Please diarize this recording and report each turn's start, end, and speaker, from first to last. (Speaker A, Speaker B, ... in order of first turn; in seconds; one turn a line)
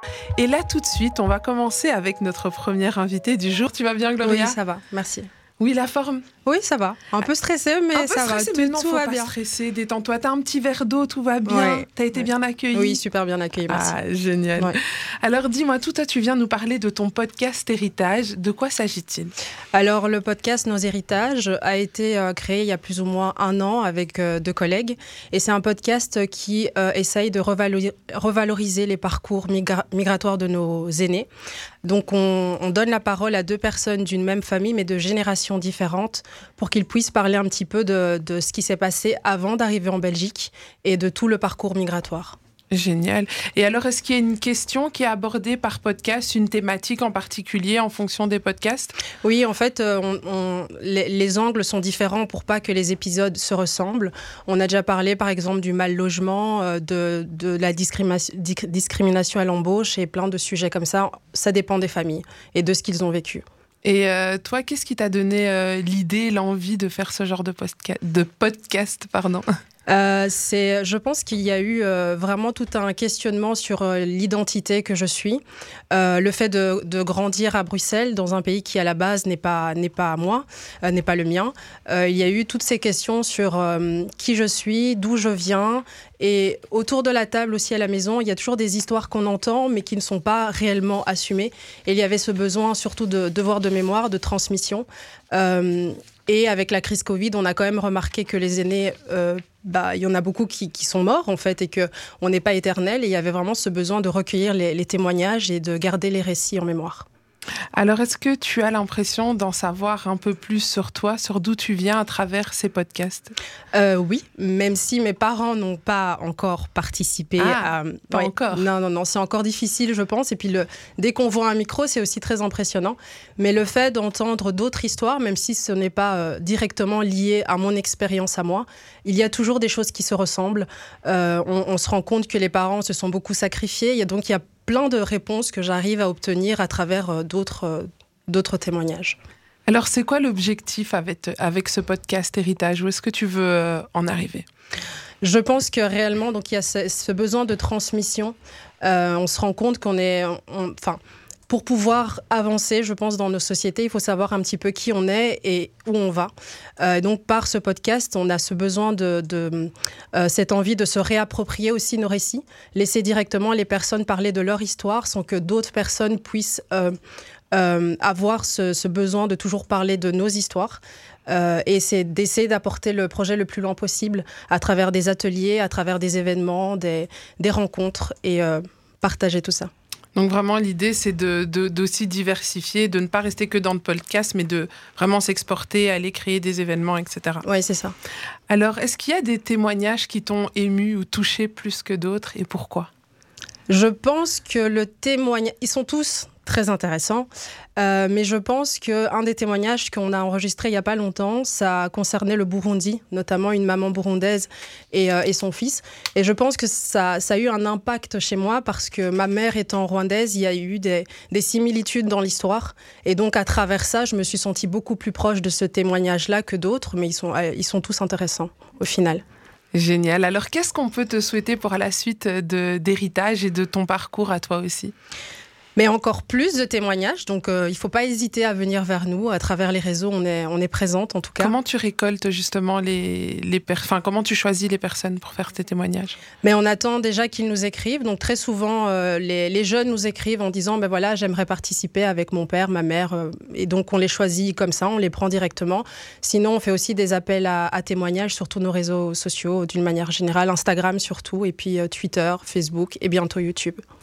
Speaker A: 0.4-4.6
Speaker B: 4.2-5.3
Speaker A: 5.6-6.2
Speaker B: 6.5-9.3
Speaker A: 8.0-13.0
Speaker B: 11.5-11.9
Speaker B: 12.7-14.0
Speaker A: 13.7-19.3
Speaker B: 19.7-31.3
Speaker B: 31.8-42.4
Speaker A: 42.7-49.0
Speaker B: 49.2-63.4
Speaker A: 63.8-69.4
Speaker B: 69.9-107.1
Speaker A: 107.8-113.3
Speaker B: 113.7-139.2
Speaker A: 117.4-118.7
Speaker A: 139.7-144.5
Speaker B: 145.2-166.9
Speaker B: 167.5-179.7
Speaker A: 180.2-187.4
Speaker B: 187.4-187.9
Speaker A: 188.5-192.9
Speaker B: 193.7-219.2
Speaker A: 219.7-224.9
Speaker B: 225.8-231.6
Speaker A: 231.4-236.2
Speaker B: 236.4-253.8